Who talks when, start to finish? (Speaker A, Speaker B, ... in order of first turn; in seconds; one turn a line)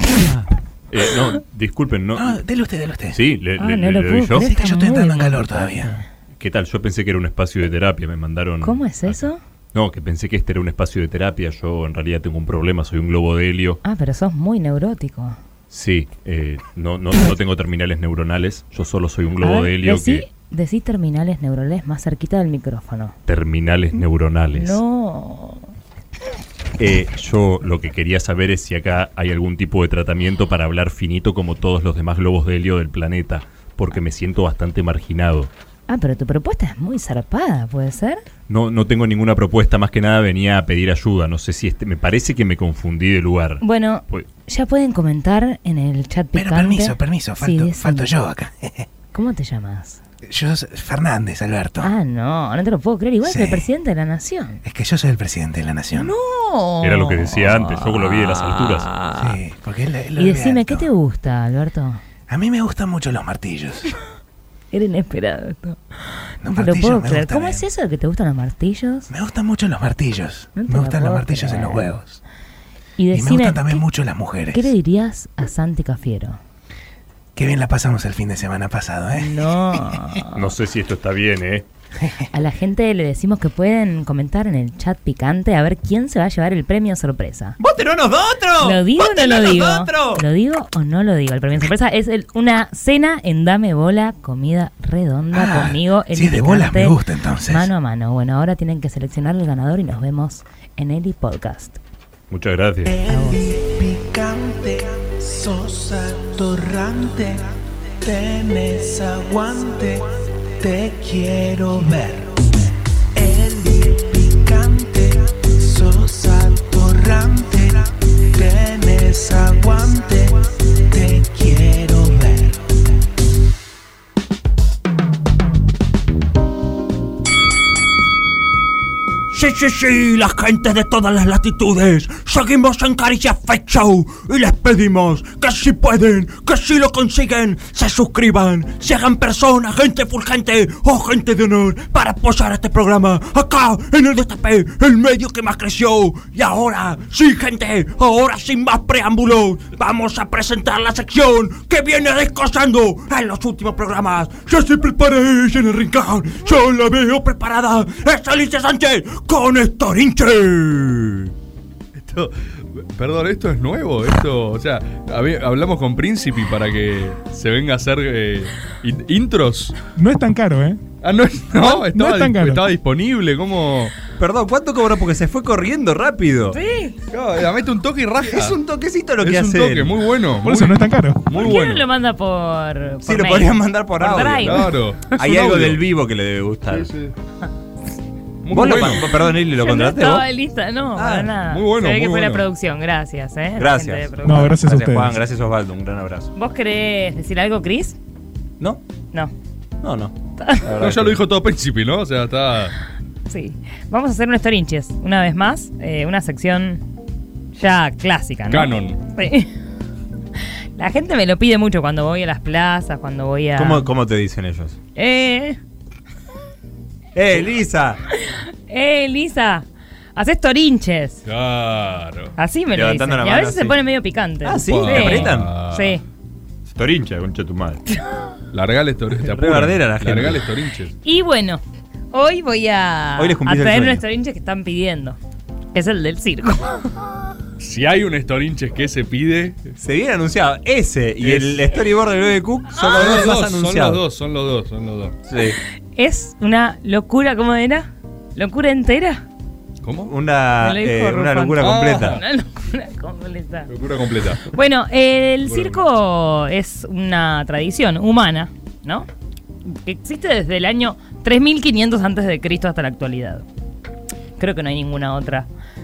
Speaker A: 0.2-2.4
Speaker B: 2.2-3.2
Speaker A: 3.1-4.5
Speaker C: 3.6-6.0
Speaker B: 4.4-6.0
Speaker A: 6.4-13.8
Speaker C: 8.6-9.4
Speaker C: 13.8-15.4
Speaker A: 15.7-20.3
Speaker C: 19.4-23.1
Speaker A: 23.3-24.8
Speaker C: 24.6-25.7
Speaker A: 26.8-35.5
Speaker C: 35.9-38.2
Speaker A: 38.5-44.3
Speaker C: 43.6-48.1
Speaker B: 46.3-48.9
Speaker C: 49.1-50.0
Speaker B: 50.3-51.9
Speaker C: 51.8-54.6
Speaker B: 53.2-53.7
Speaker B: 54.6-56.1
Speaker C: 55.9-58.1
Speaker A: 56.8-59.0
Speaker C: 58.9-59.2
Speaker B: 59.2-60.9
Speaker C: 60.2-62.0
Speaker B: 62.3-63.9
Speaker C: 64.7-65.8
Speaker B: 66.4-67.6
Speaker C: 66.4-69.1
Speaker B: 69.1-72.2
Speaker C: 70.6-71.9
Speaker C: 73.0-73.9
Speaker B: 73.1-74.7
Speaker C: 74.5-76.4
Speaker B: 77.4-79.4
Speaker C: 79.2-80.5
Speaker A: 80.3-81.7
Speaker C: 82.3-87.6
Speaker D: 87.6-88.8
Speaker C: 88.6-97.0
Speaker D: 89.5-90.2
Speaker B: 95.3-97.7
Speaker C: 97.5-101.8
Speaker A: 102.3-102.9
Speaker E: 102.9-107.5
Speaker C: 103.1-103.5
Speaker E: 108.0-112.4
Speaker E: 113.2-122.7
Speaker F: 129.3-161.3
Speaker G: 162.0-169.8
Speaker H: 170.0-170.8
Speaker G: 171.0-173.9
Speaker H: 171.6-172.7
Speaker D: 174.2-176.6
Speaker C: 176.5-177.0
Speaker G: 177.1-178.6
Speaker D: 178.2-179.9
Speaker G: 179.2-181.9
Speaker H: 180.4-181.2
Speaker C: 181.3-184.7
Speaker D: 183.1-184.6
Speaker G: 184.2-185.8
Speaker D: 185.2-186.9
Speaker G: 186.7-187.1
Speaker G: 188.4-189.2
Speaker D: 188.5-190.2
Speaker C: 189.6-194.6
Speaker D: 191.0-191.3
Speaker G: 191.5-192.5
Speaker D: 193.6-196.3
Speaker H: 194.2-195.2
Speaker C: 196.3-198.0
Speaker D: 199.8-201.2
Speaker C: 200.4-200.6
Speaker G: 200.8-202.7
Speaker C: 203.3-206.8
Speaker C: 207.6-209.5
Speaker G: 208.5-209.0
Speaker C: 210.8-213.9
Speaker D: 213.6-214.8
Speaker C: 215.0-215.6
Speaker D: 217.2-218.0
Speaker C: 218.3-221.2
Speaker G: 221.2-222.3
Speaker C: 222.4-226.0
Speaker D: 222.7-223.8
Speaker D: 224.4-225.5
Speaker G: 224.7-226.0
Speaker D: 226.8-227.8
Speaker G: 228.5-230.9
Speaker D: 229.3-230.4
Speaker C: 231.0-235.2
Speaker D: 233.2-234.0
Speaker C: 235.7-236.8
Speaker G: 237.6-239.7
Speaker D: 239.8-244.0
Speaker G: 241.2-241.7
Speaker G: 242.8-245.1
Speaker D: 245.3-245.6
Speaker C: 246.0-249.2
Speaker G: 249.8-250.1
Speaker D: 250.1-252.2
Speaker C: 250.6-253.7
Speaker G: 251.6-252.2
Speaker G: 253.7-254.5
Speaker C: 254.5-259.1
Speaker G: 255.4-255.8
Speaker C: 259.7-263.4
Speaker C: 264.4-265.5